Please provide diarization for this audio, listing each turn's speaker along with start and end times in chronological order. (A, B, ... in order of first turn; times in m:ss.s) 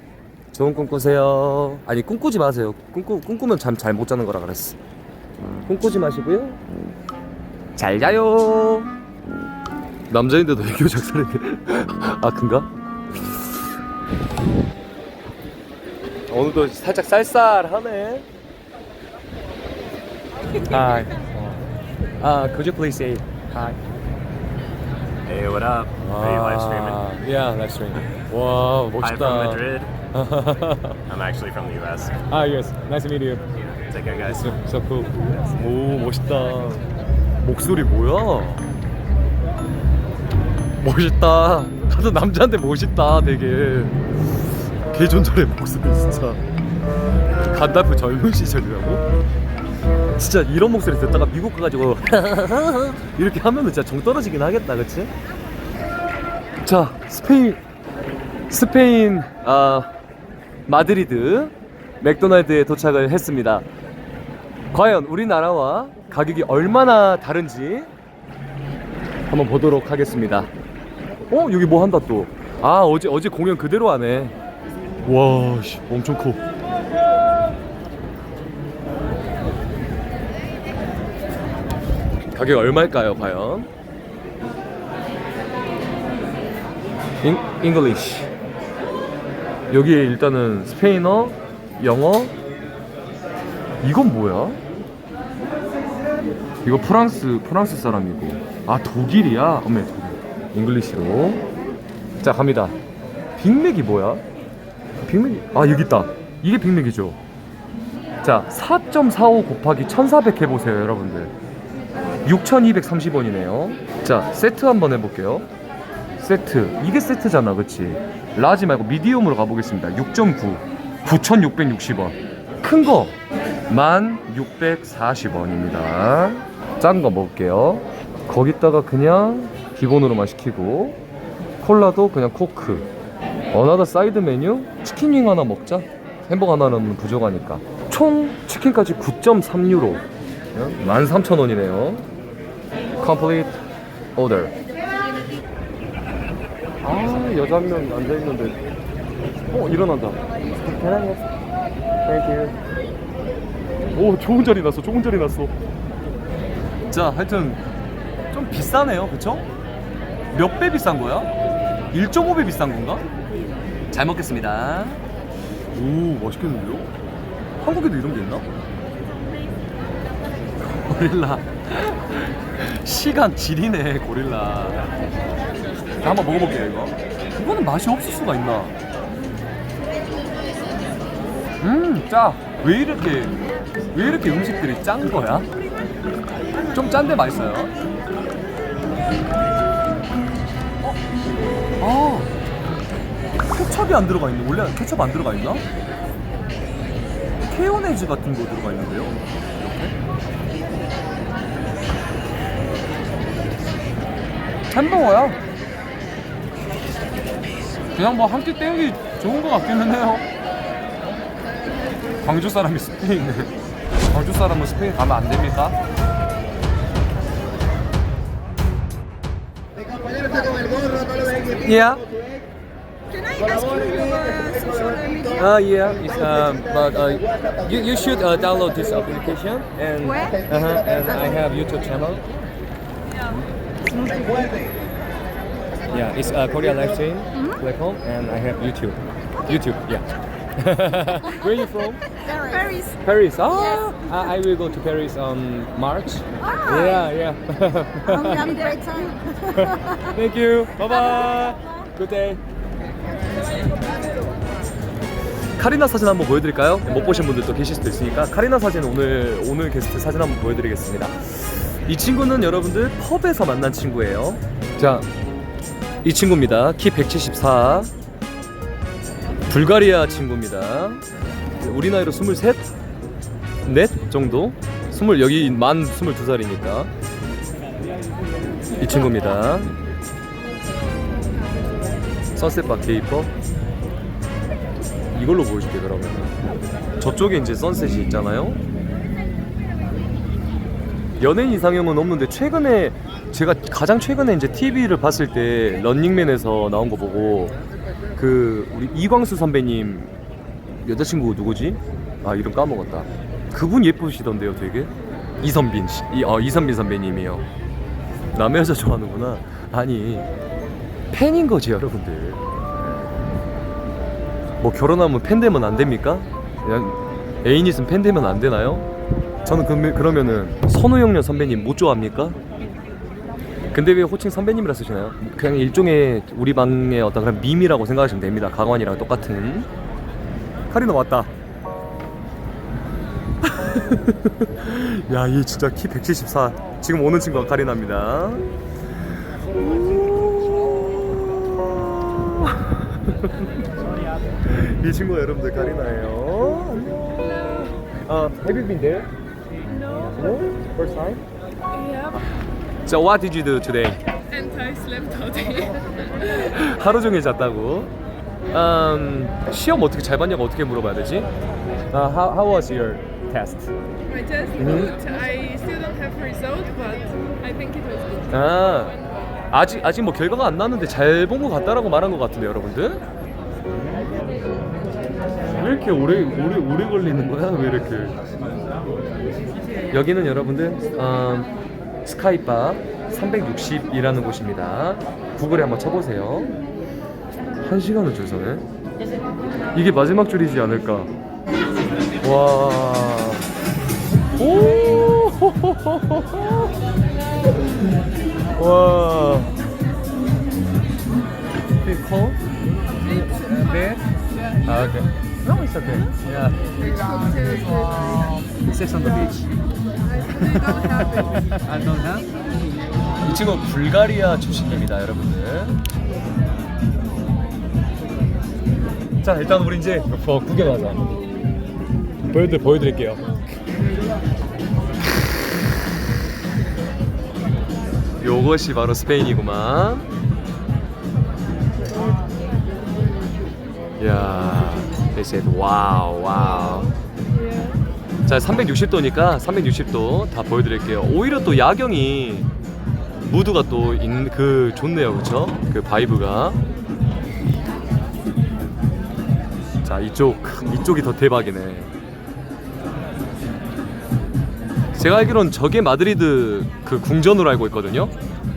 0:00.5-0:04.8 A
0:05.7-0:06.6 A
0:07.8-0:08.9 A
0:10.1-0:13.4 A
0:16.3-0:18.3 A
0:20.7-0:21.6 A
0:22.2-0:23.8 A
0:25.3-0:27.0 B
0:26.0-0:31.0 A
0:29.0-0:29.9 B
0:31.1-0:32.2 B
0:32.3-0:33.4 A
0:33.9-0:34.6 B
0:34.2-0:36.8 A
0:37.4-0:38.7 A
0:40.8-0:44.0 A
0:44.8-0:46.4 A
0:47.4-0:49.1 A
0:50.2-0:55.1 A
0:56.6-0:57.6 A
0:58.5-0:59.9 A
1:00.7-1:03.7 A
1:04.7-1:07.9 A
1:09.3-1:10.5 A
1:11.3-1:14.3 A
1:15.0-1:16.4 A
1:22.3-1:23.7 A
1:27.2-1:28.3 A
1:29.7-1:32.3 A
1:33.8-1:34.6 A
1:36.6-1:41.4 A
1:42.2-1:42.8 A
1:43.4-1:44.2 A
1:45.1-1:47.2 A
1:48.2-1:51.3 A
1:52.2-1:55.5 A
1:56.2-2:03.2 A
2:03.7-2:11.0 A
2:11.6-2:12.9 A
2:13.5-2:22.1 A
2:23.0-2:23.6 A
2:24.2-2:24.6 A
2:26.8-2:28.6 A
2:29.5-2:31.2 A
2:32.1-2:32.6 A
2:33.9-2:35.5 A
2:36.9-2:37.6 A
2:38.3-2:39.5 A
2:40.3-2:41.3 A
2:41.9-2:43.0 A
2:43.9-2:45.0 A
2:45.7-2:46.9 A
2:47.6-2:48.5 A
2:50.6-2:54.8 A
2:56.0-2:58.7 A
3:01.6-3:03.4 A
3:03.9-3:05.5 A
3:06.7-3:07.7 A
3:11.8-3:12.3 A
3:13.5-3:15.6 A
3:17.5-3:19.9 A
3:24.7-3:25.4 A
3:28.0-3:30.3 A
3:32.2-3:33.5 A
3:34.1-3:35.8 A
3:41.6-3:42.0 A
3:43.5-3:45.2 C
3:45.3-3:52.3 A
3:53.3-3:54.4 A
3:55.9-4:02.0 A
4:02.5-4:02.8 C
4:03.0-4:08.8 A
4:08.8-4:09.2 C
4:09.4-4:12.4 A
4:15.6-4:25.1 A
4:26.0-4:27.9 A
4:29.5-4:31.0 A
4:31.6-4:32.7 A
4:33.6-4:36.9 A
4:38.8-4:39.7 A
4:42.4-4:43.3 A
4:45.1-4:46.4 A
4:47.0-4:48.6 A
4:51.2-4:57.5 A
4:58.2-5:00.1 A
5:00.8-5:07.5 A
5:08.3-5:10.3 A
5:11.1-5:12.4 A
5:14.6-5:18.9 A
5:19.4-5:22.4 A
5:23.7-5:29.7 A
5:30.7-5:31.3 A
5:33.4-5:38.5 A
5:39.6-5:40.5 A
5:42.1-5:43.4 A
5:44.4-5:49.1 A
5:49.8-5:50.1 D
5:50.0-5:51.2 A
5:51.7-5:52.2 D
5:52.8-5:54.0 A
5:54.3-5:56.3 D
5:56.2-5:57.9 A
5:58.5-6:01.3 A
6:01.9-6:03.7 A
6:04.1-6:09.2 D
6:04.6-6:05.0 A
6:08.3-6:09.0 A
6:09.5-6:13.0 A
6:15.5-6:18.2 A
6:19.9-6:21.5 A
6:22.0-6:26.6 A
6:27.6-6:28.7 A
6:29.7-6:31.1 A
6:32.2-6:33.4 A
6:34.4-6:36.7 A
6:38.6-6:39.6 A
6:41.8-6:42.4 A
6:42.9-6:44.6 D
6:43.2-6:44.0 A
6:44.6-6:46.6 A
6:46.7-6:48.4 D
6:48.1-6:49.5 A
6:50.0-6:51.6 D
6:50.3-6:52.3 A
6:53.2-6:55.8 A
6:59.2-7:01.1 A
7:02.2-7:03.2 A
7:08.2-7:10.1 A
7:14.0-7:16.9 A
7:17.4-7:17.8 D
7:18.3-7:22.5 A
7:23.3-7:26.6 A
7:29.8-7:31.9 A
7:35.0-7:38.1 A